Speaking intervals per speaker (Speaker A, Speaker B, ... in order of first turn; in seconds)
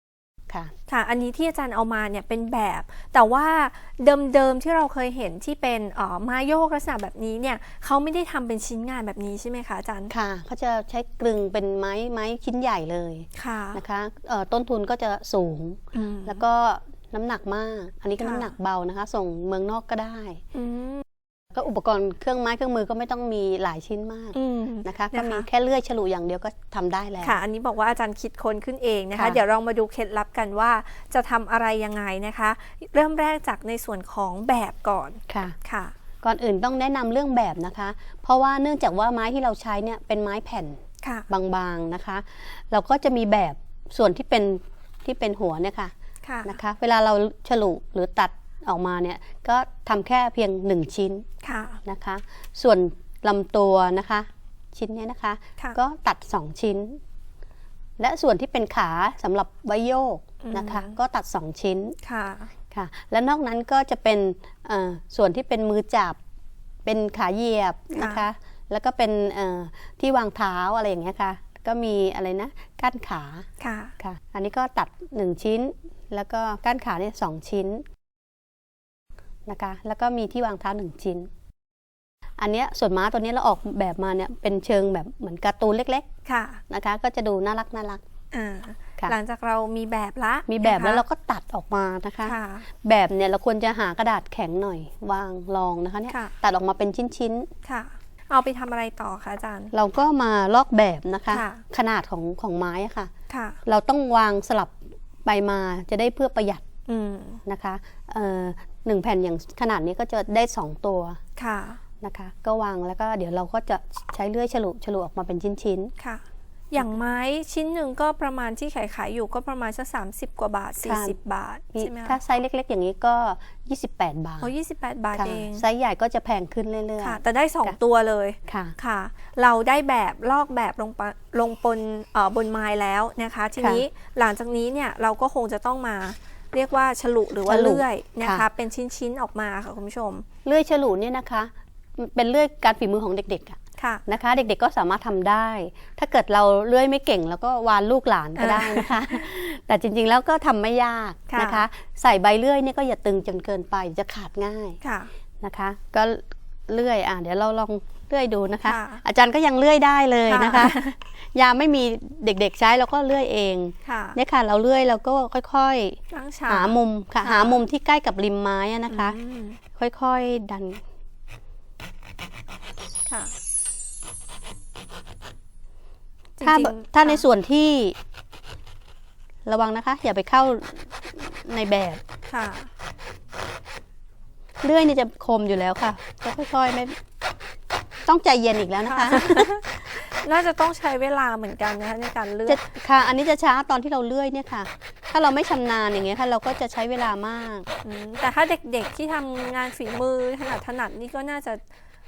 Speaker A: 0.9-10.1, 13.3-13.8, 15.9-16.4, 18.2-18.5, 20.5-21.0, 24.3-25.5, 27.2-35.9, 46.2-46.6, 51.4-51.8, 60.4-61.0, 62.0-62.5, 67.9-68.2, 73.6-73.9, 86.2-86.6, 88.3-91.0, 92.2-92.7, 97.6-99.7, 101.3-101.6, 103.3-103.6, 106.9-107.4, 111.4-111.8, 116.0-122.2, 124.4-125.6, 127.0-140.2, 143.8-144.0, 148.3-149.2, 151.3-151.6, 154.8-155.1, 158.6-159.0, 160.3-161.0, 163.8-164.2, 166.1-167.6, 168.9-169.6, 173.1-173.3, 176.4-177.2, 182.3-182.7, 188.9-192.6, 197.8-201.6
Speaker B: 10.1-20.4, 21.5-27.4, 29.1-29.4, 35.3-35.5, 36.2-45.9, 46.4-51.2, 51.8-57.0, 58.0-62.0, 62.7-66.2, 66.8-73.5, 74.0-77.8, 79.5-81.3, 82.4-86.1, 86.7-88.0, 90.5-97.5, 99.7-103.1, 103.6-106.6, 107.4-111.2, 112.0-115.9, 120.8-121.2, 121.7-124.5, 125.2-127.8, 128.5-128.7, 133.6-133.8, 137.4-138.4, 140.4-154.8, 155.4-169.2, 169.8-170.8, 176.4-178.0, 179.4-182.0, 184.6-187.0, 188.1-189.5, 192.4-197.7